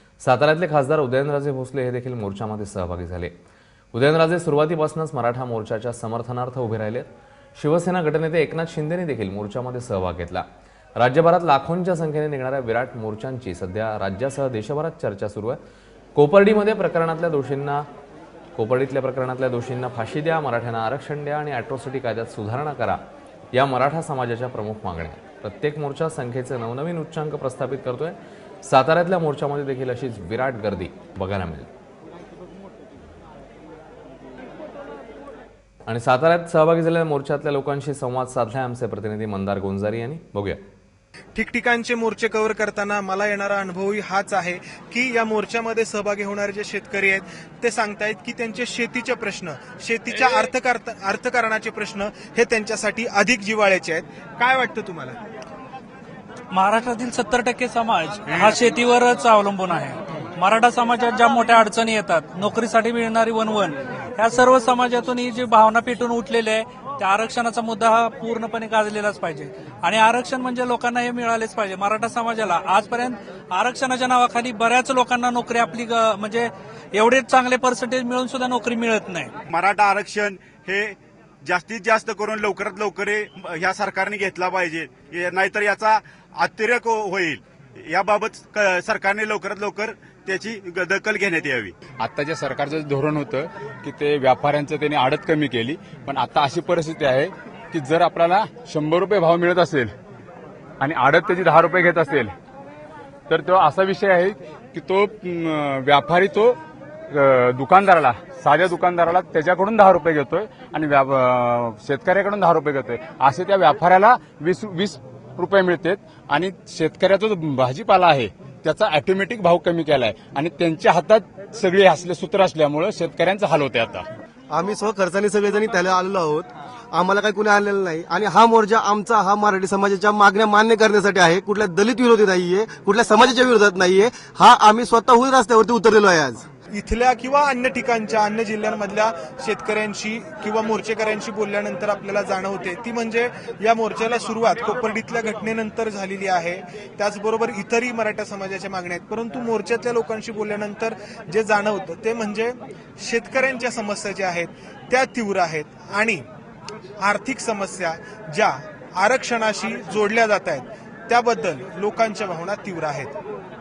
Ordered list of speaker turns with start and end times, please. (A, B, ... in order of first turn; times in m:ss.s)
0:00.2-0:03.3 A
0:03.9-0:10.4 A
0:11.0-0:15.6 A
0:16.2-0:17.8 A
0:18.6-0:23.0 A
0:23.5-0:31.7 A
0:35.9-0:40.6 A
0:41.4-0:55.2 B
0:56.5-1:19.3 C
1:19.5-1:31.8 D
1:31.9-1:39.9 E
1:40.8-1:42.3 E
1:43.3-1:46.6 E
1:47.1-2:04.1 E
2:04.5-2:16.4 F
2:16.7-2:36.2 B
2:37.0-2:43.2 B